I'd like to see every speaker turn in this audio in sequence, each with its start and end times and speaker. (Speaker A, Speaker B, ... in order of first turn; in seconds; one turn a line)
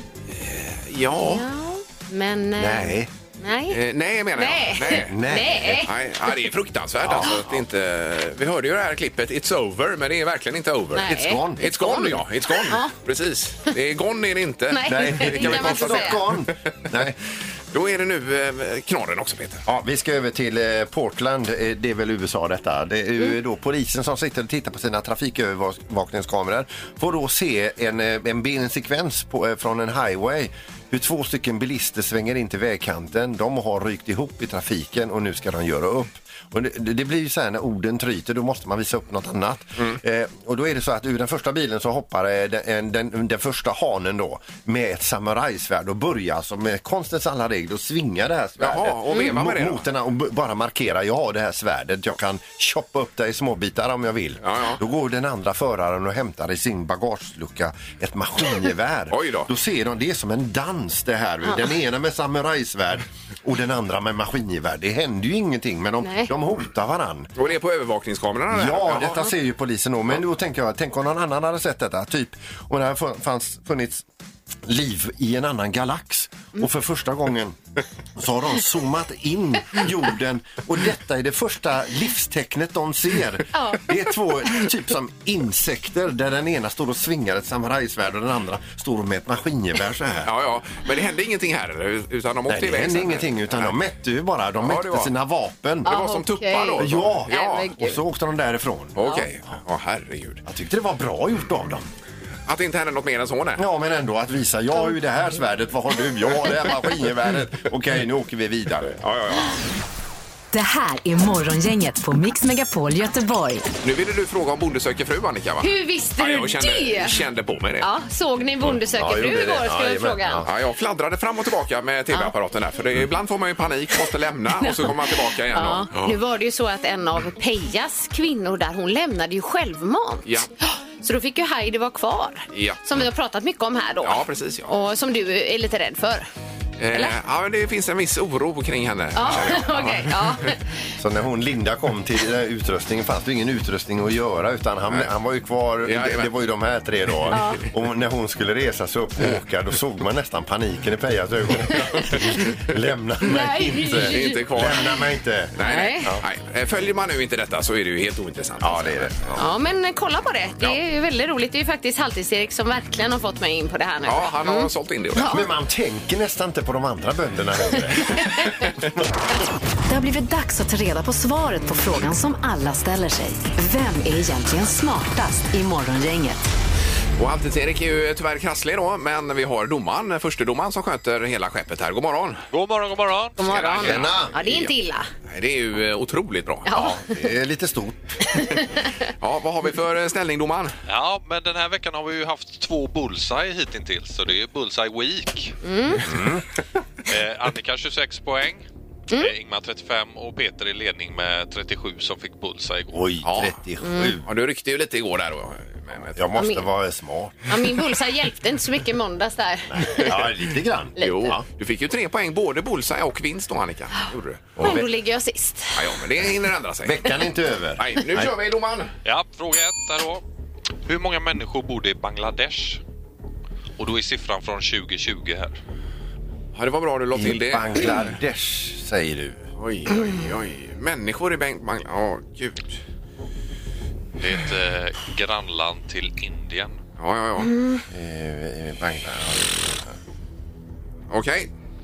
Speaker A: 0.3-1.4
Speaker B: 1.2-3.8
Speaker C: 2.6-3.1
Speaker A: 3.7-5.2
Speaker B: 4.3-5.9
Speaker C: 4.9-5.8
Speaker A: 5.8-16.4
Speaker C: 7.0-7.4
Speaker B: 10.9-12.9
Speaker C: 11.0-11.7
Speaker B: 14.7-16.2
Speaker C: 14.8-17.2
Speaker A: 17.7-19.6
Speaker C: 19.6-67.3
Speaker A: 48.6-49.8
Speaker A: 54.4-54.8
Speaker A: 59.1-59.5
Speaker B: 66.0-66.3
Speaker A: 67.3-69.2
Speaker C: 68.5-74.0
Speaker C: 74.6-77.6
Speaker C: 78.2-90.3
Speaker B: 83.5-83.8
Speaker A: 90.2-93.7
Speaker C: 92.5-96.0
Speaker A: 94.6-95.1
Speaker A: 95.8-97.7
Speaker B: 95.8-98.0
Speaker C: 96.8-99.0
Speaker A: 99.0-100.4
Speaker C: 100.4-101.9
Speaker A: 102.5-103.6
Speaker C: 103.6-109.0
Speaker A: 109.0-109.6
Speaker D: 110.5-113.7
Speaker A: 113.8-117.9
Speaker B: 115.6-117.2
Speaker B: 117.8-120.4
Speaker C: 118.8-120.5
Speaker A: 120.4-126.2
Speaker B: 124.6-125.0
Speaker B: 125.5-136.3
Speaker A: 132.5-133.0
Speaker A: 134.0-134.7
Speaker A: 136.8-140.5
Speaker B: 139.2-140.8
Speaker C: 141.0-156.2
Speaker A: 145.8-146.3
Speaker B: 147.3-147.6
Speaker B: 153.2-154.4
Speaker A: 154.0-154.9
Speaker A: 155.5-159.4
Speaker B: 155.6-156.1
Speaker C: 158.6-159.2
Speaker B: 159.3-165.4
Speaker A: 164.0-165.4
Speaker C: 165.2-168.3
Speaker B: 168.2-168.4
Speaker D: 169.9-176.4
Speaker A: 177.2-182.4
Speaker E: 182.5-183.9
Speaker B: 183.4-185.1
Speaker A: 183.5-184.7
Speaker C: 183.8-184.3
Speaker A: 185.3-186.8
Speaker B: 186.7-187.1
Speaker C: 186.7-188.2
Speaker B: 188.3-188.9
Speaker A: 189.2-190.7
Speaker E: 190.9-195.5
Speaker B: 195.6-196.0
Speaker C: 196.1-196.4
Speaker E: 197.1-203.0
Speaker C: 202.9-204.2
Speaker A: 203.2-203.5
Speaker B: 203.8-204.1
Speaker A: 204.2-206.2
Speaker C: 206.1-207.3
Speaker B: 206.3-206.6
Speaker B: 207.5-210.1
Speaker C: 209.7-211.4
Speaker B: 211.0-211.3
Speaker A: 211.0-214.6
Speaker C: 214.6-214.9
Speaker B: 214.6-215.8
Speaker A: 215.7-217.0
Speaker C: 216.8-218.3
Speaker A: 217.8-218.9
Speaker E: 219.0-220.2
Speaker E: 220.8-222.8
Speaker E: 223.8-225.6
Speaker A: 226.5-228.1
Speaker C: 227.1-229.4
Speaker A: 229.6-232.7
Speaker E: 234.2-236.8
Speaker A: 237.0-237.5
Speaker B: 237.4-237.8
Speaker C: 237.9-239.8
Speaker A: 241.1-241.5